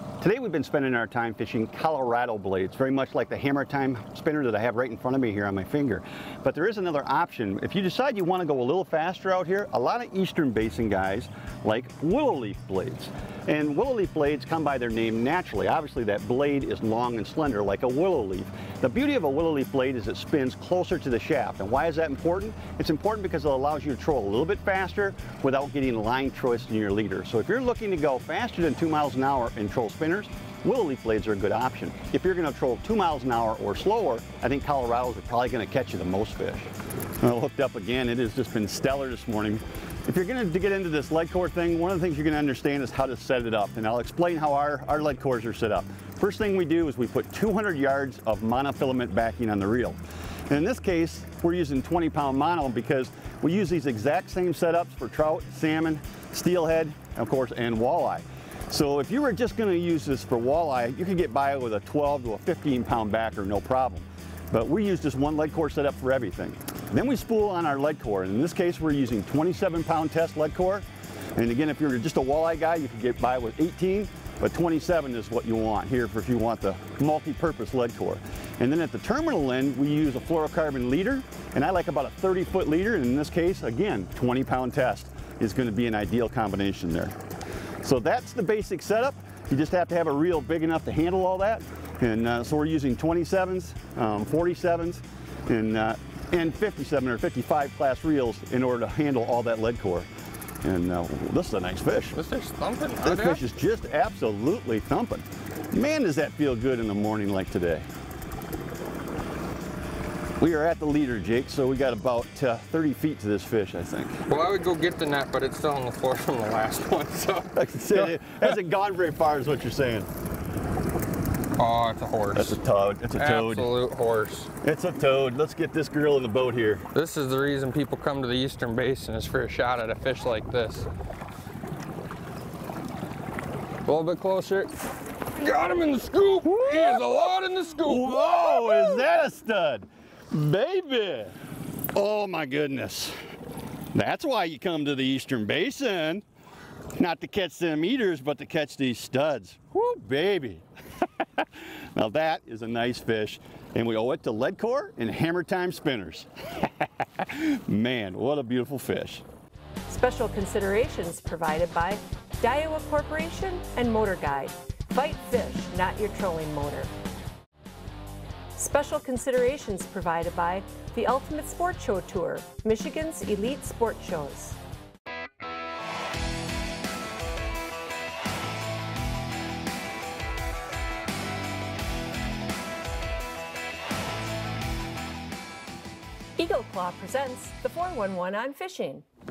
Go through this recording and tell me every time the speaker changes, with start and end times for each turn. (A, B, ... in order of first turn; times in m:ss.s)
0:00.2-1:27.2 A
1:27.8-1:40.1 A
1:40.6-1:42.2 A
1:42.1-1:43.4 B
1:43.0-1:47.8 A
1:50.4-1:54.2 A
1:54.3-1:58.5 B
1:57.5-2:00.1 A
2:01.6-2:02.6 B
2:02.3-2:03.7 A
2:03.2-2:04.5 B
2:04.6-2:06.8 A
2:06.9-2:10.9 B
2:13.8-2:14.7 B
2:15.3-2:19.0 B
2:16.4-2:17.1 A
2:17.8-2:21.4 A
2:21.9-2:23.2 A
2:23.9-2:26.2 A
2:27.0-2:39.2 A
2:39.9-2:46.9 C
2:48.6-2:54.6 C
3:06.4-3:09.0 C